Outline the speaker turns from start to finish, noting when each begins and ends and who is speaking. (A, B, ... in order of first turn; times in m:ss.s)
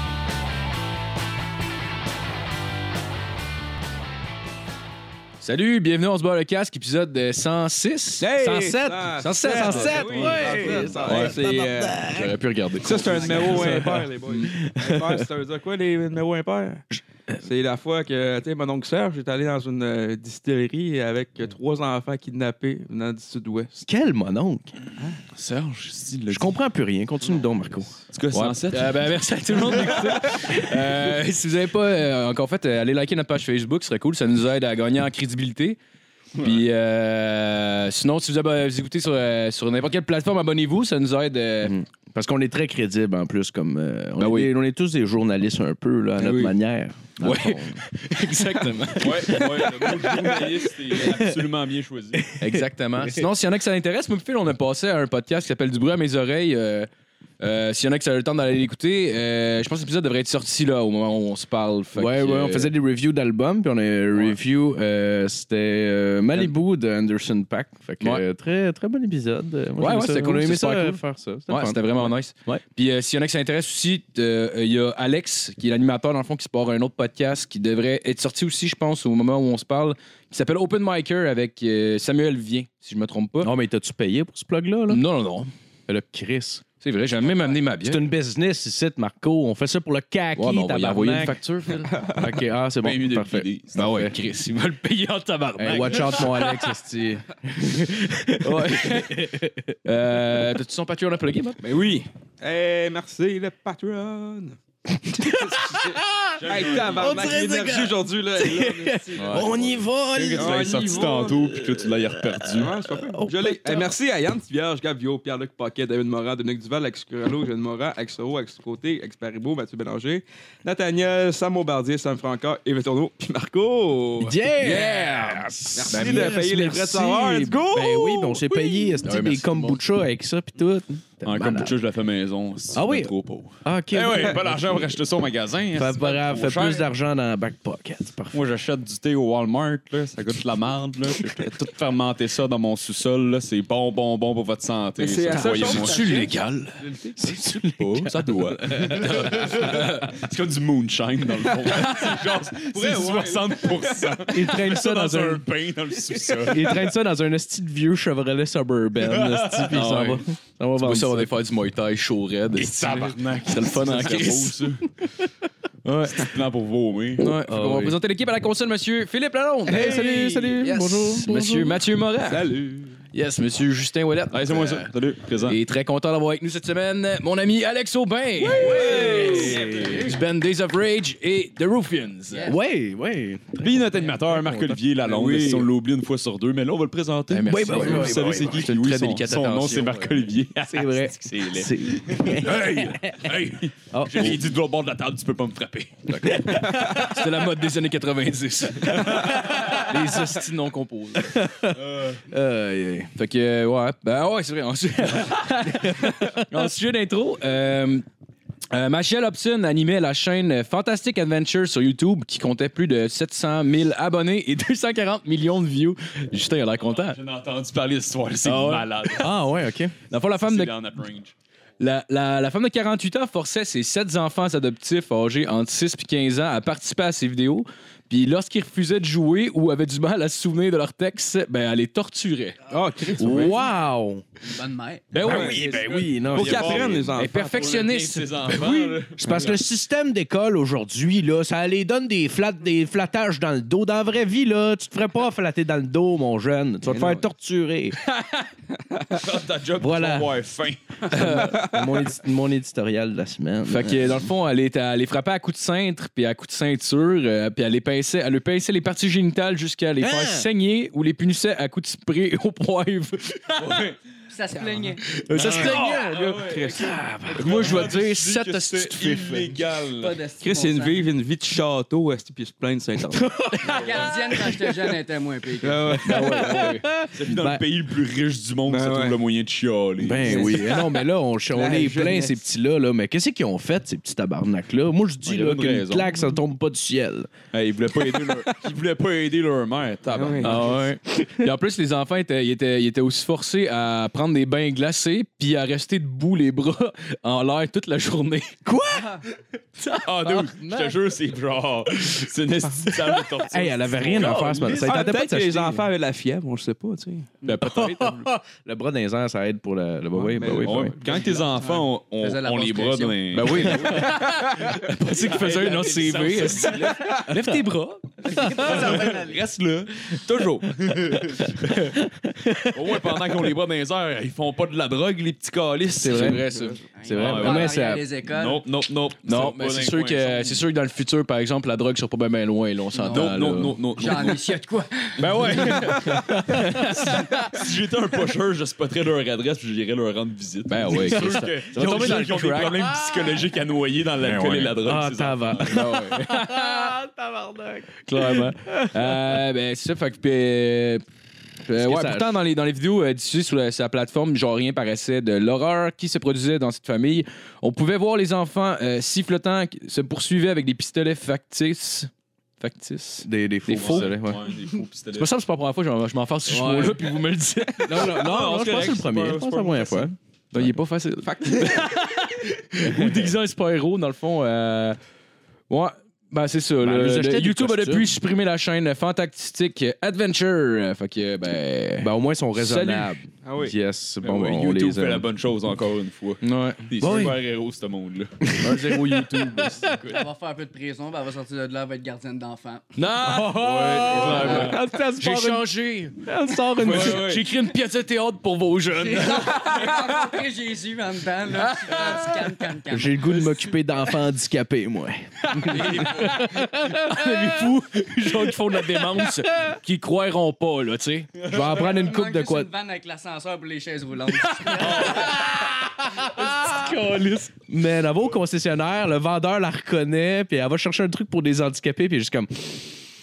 0:05.4-0:08.3 A
0:08.2-0:12.0 B
0:08.3-0:12.3 C
0:09.2-0:14.0 A
0:12.8-0:16.8 B
0:13.1-0:15.2 C
0:17.4-0:23.8 B
0:23.8-0:24.8 C
0:25.3-0:26.5 D
0:26.3-0:28.0 C
0:28.1-0:29.0 D
0:28.3-0:35.8 A
0:36.4-0:41.8 A
0:41.6-0:47.8 C
0:44.2-0:44.5 A
0:46.2-0:46.5 A
0:47.2-0:49.8 A
0:49.0-0:52.3 D
0:49.2-0:51.3 C
0:52.3-0:53.2 C
0:52.4-0:56.9 A
0:57.4-1:02.7 A
1:02.0-1:12.6 C
1:09.8-1:23.5 A
1:23.4-1:25.0 C
1:24.9-1:25.5 A
1:25.9-1:26.6 C
1:26.8-1:28.1 A
1:27.8-1:31.4 C
1:30.4-1:32.0 A
1:31.9-1:32.3 B
1:32.1-1:34.1 C
1:32.8-1:34.1 D
1:33.7-1:36.8 A
1:35.6-1:39.8 C
1:38.4-1:39.3 A
1:39.8-1:41.6 A
1:41.6-1:49.7 B
1:45.1-1:51.0 C
1:46.4-1:47.4 D
1:49.2-1:49.6 A
1:50.2-1:52.7 D
1:50.3-1:51.6 B
1:52.0-1:53.9 C
1:52.6-2:04.4 B
2:04.2-2:11.7 C
2:04.6-2:06.4 A
2:05.7-2:09.0 B
2:09.0-2:09.8 A
2:11.2-2:16.8 D
2:12.7-2:13.1 C
2:13.6-2:14.9 C
2:15.7-2:18.4 C
2:18.3-2:26.0 D
2:25.0-2:27.2 B
2:25.4-2:26.8 A
2:27.2-2:29.7 C
2:27.7-2:36.8 D
2:29.0-2:30.1 A
2:31.8-2:32.1 B
2:32.7-2:34.2 B
2:34.3-2:35.5 C
2:36.4-2:41.3 C
2:39.0-2:40.1 D
2:39.7-2:40.2 A
2:40.8-2:44.7 A
2:42.6-2:44.9 D
2:45.8-2:46.4 A
2:46.1-2:47.4 D
2:47.2-2:52.5 A
2:47.4-2:48.0 C
2:49.6-2:51.8 C
2:49.7-2:50.6 B
2:52.3-2:53.0 B
2:53.1-2:54.9 A
2:54.3-2:55.6 D
2:55.4-3:02.5 A
2:58.4-2:59.8 B
2:58.5-3:00.1 D
2:58.7-2:59.9 C
3:02.3-3:02.6 E
3:02.5-3:04.8 C
3:03.6-3:16.1 D
3:05.0-3:05.6 A
3:05.3-3:05.6 C
3:07.3-3:10.2 A
3:07.4-3:08.5 C
3:10.6-3:13.4 C
3:12.4-3:13.0 A
3:13.9-3:14.4 C
3:16.1-3:21.4 A
3:16.2-3:16.9 C
3:21.2-3:23.1 C
3:21.8-3:22.2 D
3:23.2-3:28.0 A
3:25.8-3:26.3 C
3:28.7-3:37.2 A
3:36.8-3:39.3 D
3:38.4-3:39.1 A
3:39.1-3:39.9 C
3:40.1-3:40.7 A
3:40.4-3:41.3 D
3:41.8-3:52.6 A
3:52.7-3:53.6 B
3:53.2-3:54.2 C
3:54.4-3:55.1 E
3:55.1-3:55.7 A
3:55.2-3:57.0 C
3:55.2-3:57.7 B
3:55.3-3:59.5 D
3:57.2-3:59.0 A
3:59.2-4:08.0 C
3:59.3-3:59.5 B
4:06.9-4:07.3 B
4:08.8-4:09.2 B
4:09.1-4:11.3 D
4:09.8-4:10.3 C
4:11.1-4:14.2 C
4:11.3-4:11.9 B
4:13.6-4:23.8 A
4:20.0-4:20.5 C
4:23.6-4:24.0 D
4:24.3-4:25.2 E
4:25.2-4:29.6 A
4:25.3-4:27.0 B
4:25.3-4:30.2 D
4:25.4-4:25.9 C
4:26.7-4:27.7 C
4:30.0-4:31.1 E
4:30.4-4:33.2 B
4:33.2-4:33.7 C
4:33.7-4:36.0 E
4:33.7-4:34.0 D
4:35.6-4:36.6 B
4:36.0-4:36.9 A
4:36.1-4:37.6 C
4:37.1-4:40.7 D
4:38.7-4:39.2 B
4:40.0-4:47.3 C
4:40.2-4:41.0 B
4:41.5-4:42.3 B
4:45.2-4:46.3 D
4:47.5-4:50.7 D
4:50.1-4:50.8 B
4:50.4-4:58.6 A
4:58.6-4:59.1 C
4:58.9-4:59.2 E
5:00.0-5:04.9 D
5:00.2-5:00.8 A
5:03.4-5:05.8 C
5:04.7-5:07.6 B
5:07.4-5:08.2 A
5:07.6-5:10.9 C
5:10.2-5:11.5 B
5:10.6-5:14.2 D
5:11.5-5:14.0 E
5:13.3-5:18.5 A
5:15.2-5:17.2 D
5:17.3-5:17.7 C
5:18.2-5:19.4 E
5:18.3-5:19.0 C
5:18.6-5:21.8 D
5:21.1-5:23.4 C
5:22.7-5:26.4 D
5:26.0-5:26.4 C
5:26.0-5:27.4 A
5:26.9-5:28.6 E
5:27.0-5:28.0 C
5:27.1-5:30.6 D
5:29.2-5:34.1 A
5:33.1-5:34.6 D
5:34.0-5:35.2 E
5:35.2-5:45.8 D
5:35.2-5:37.2 A
5:35.8-5:36.9 C
5:40.7-5:42.9 A
5:40.9-5:42.7 C
5:44.4-5:49.4 C
5:45.6-5:46.7 A
5:48.0-5:51.0 A
5:51.6-6:04.3 A
5:51.7-5:52.3 C
6:03.2-6:04.3 C
6:03.7-6:05.3 D
6:05.2-6:08.1 A
6:06.5-6:07.0 C
6:07.8-6:10.7 C
6:07.9-6:10.1 D
6:10.5-6:15.0 A
6:11.3-6:11.8 C
6:12.8-6:13.3 C
6:15.7-6:23.1 A
6:16.8-6:18.1 C
6:22.0-6:25.3 C
6:23.4-6:23.7 B
6:24.2-6:28.5 D
6:26.4-6:26.9 A
6:27.0-6:27.4 C
6:28.4-6:29.9 C
6:28.6-6:30.0 A
6:30.0-6:32.9 E
6:33.0-6:39.9 A
6:33.2-6:37.4 C
6:33.5-6:34.8 D
6:36.8-6:37.4 D
6:38.9-6:43.4 E
6:41.7-6:42.6 A
6:42.9-6:47.4 C
6:45.4-6:51.3 A
6:45.7-6:46.4 D
6:51.4-6:51.7 D
6:51.5-6:52.7 C
6:51.5-6:55.4 E
6:54.4-6:57.5 A
6:55.0-6:55.3 D
6:57.7-7:02.9 C